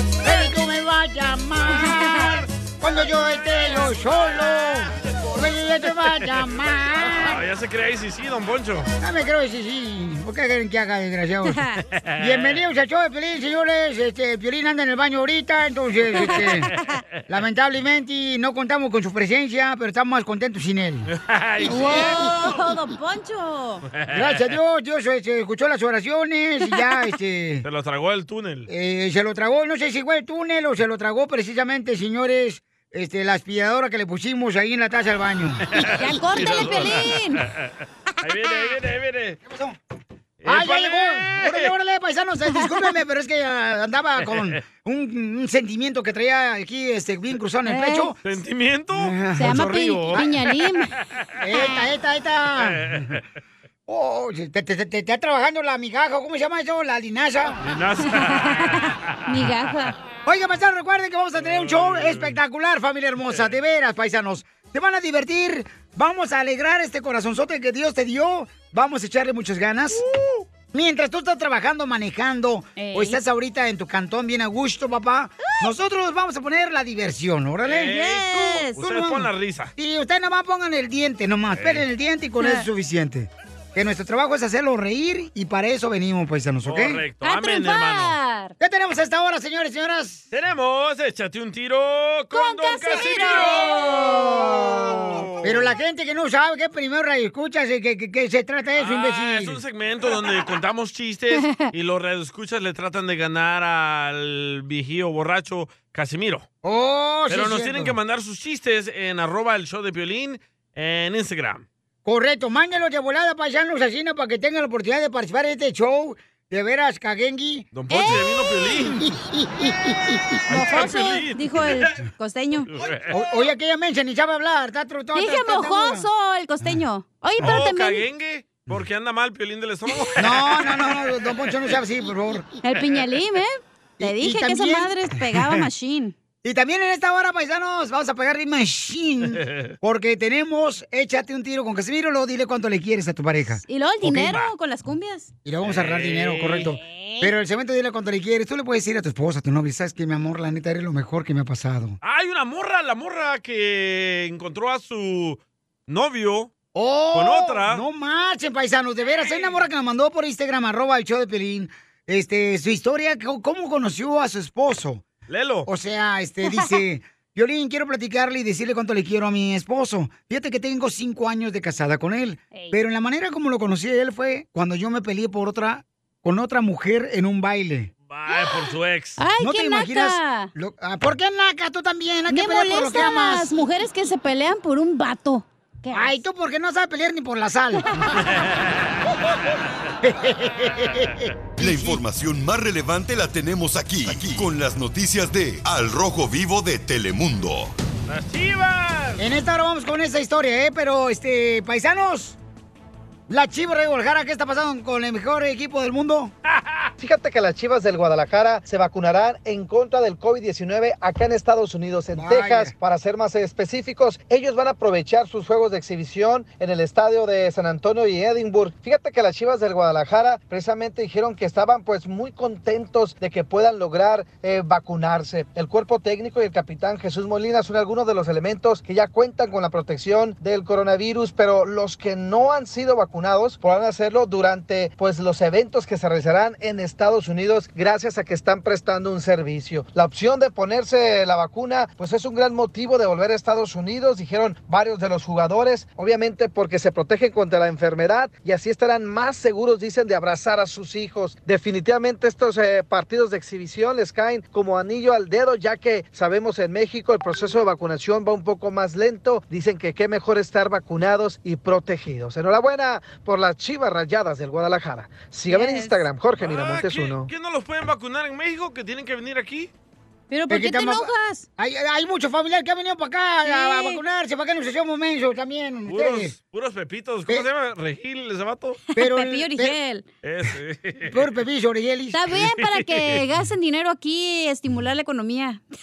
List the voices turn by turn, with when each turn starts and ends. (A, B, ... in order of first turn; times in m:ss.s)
0:00.2-0:07.4 A
0:07.0-0:08.9 B
0:09.0-0:11.6 A
0:11.5-0:11.8 C
0:11.9-0:12.6 B
0:12.2-0:16.7 A
0:17.3-0:21.1 A
0:21.1-0:22.2 B
0:21.6-0:23.8 C
0:21.6-0:22.7 A
0:23.9-0:24.5 B
0:24.1-0:27.6 A
0:27.6-0:28.7 B
0:28.7-0:35.9 A
0:35.7-0:37.6 B
0:36.0-0:37.4 C
0:38.2-0:39.4 B
0:39.4-0:39.8 A
0:40.4-0:41.7 B
0:40.4-0:48.2 A
0:42.5-0:42.9 C
0:44.2-0:44.6 B
0:47.6-0:48.1 C
0:48.2-0:50.5 B
0:48.9-0:50.3 A
0:49.4-0:50.9 C
0:51.4-0:53.0 A
0:52.6-0:53.2 B
0:53.9-0:57.6 A
0:57.6-0:59.5 B
0:58.3-0:59.9 C
1:00.2-1:10.0 A
1:01.4-1:02.4 B
1:10.7-1:19.2 A
1:12.8-1:13.2 C
1:17.6-1:19.7 B
1:17.9-1:18.9 C
1:19.8-1:27.0 A
1:21.6-1:21.8 B
1:22.4-1:22.6 C
1:26.6-1:28.2 B
1:27.2-1:28.5 C
1:28.6-1:30.2 A
1:30.3-1:33.8 B
1:32.3-1:35.1 C
1:33.2-1:39.6 A
1:34.7-1:35.7 B
1:38.8-1:46.4 B
1:41.3-1:41.7 C
1:46.6-1:48.0 A
1:47.3-1:51.6 B
1:52.0-1:57.7 A
1:57.7-1:59.0 B
1:57.9-1:58.8 C
1:58.9-2:00.4 A
2:00.5-2:01.9 B
2:00.5-2:02.7 C
2:02.8-2:03.1 B
2:03.1-2:06.1 A
2:05.1-2:08.0 C
2:07.4-2:10.4 B
2:10.2-2:12.4 A
2:12.6-2:16.1 C
2:14.0-2:15.6 A
2:16.4-2:23.6 A
2:19.4-2:19.7 B
2:23.7-2:25.3 C
2:24.0-2:24.5 B
2:25.4-2:32.0 A
2:25.6-2:26.7 B
2:26.8-2:27.3 C
2:32.0-2:36.5 B
2:36.7-2:45.0 A
2:37.1-2:37.8 B
2:45.3-2:45.7 B
2:45.6-2:57.9 A
2:46.4-2:46.7 C
2:58.1-2:59.2 B
2:59.2-3:00.5 C
2:59.4-3:03.7 A
3:02.3-3:06.2 C
3:05.9-3:07.9 A
3:10.0-3:12.0 A
3:11.6-3:17.7 D
3:18.1-3:19.2 B
3:19.2-3:22.4 A
3:23.3-3:26.3 A
3:26.6-3:26.9 B
3:27.0-4:27.3 E
3:32.1-3:32.7 A
4:25.5-4:26.0 C
4:26.4-4:29.7 B
4:30.3-4:31.4 C
4:30.5-4:36.3 A
4:33.4-4:34.0 C
4:35.9-4:38.8 B
4:38.9-4:40.0 C
4:39.0-4:39.8 A
4:40.2-4:41.2 B
4:41.1-4:42.2 A
4:42.1-4:45.6 C
4:42.5-4:43.2 B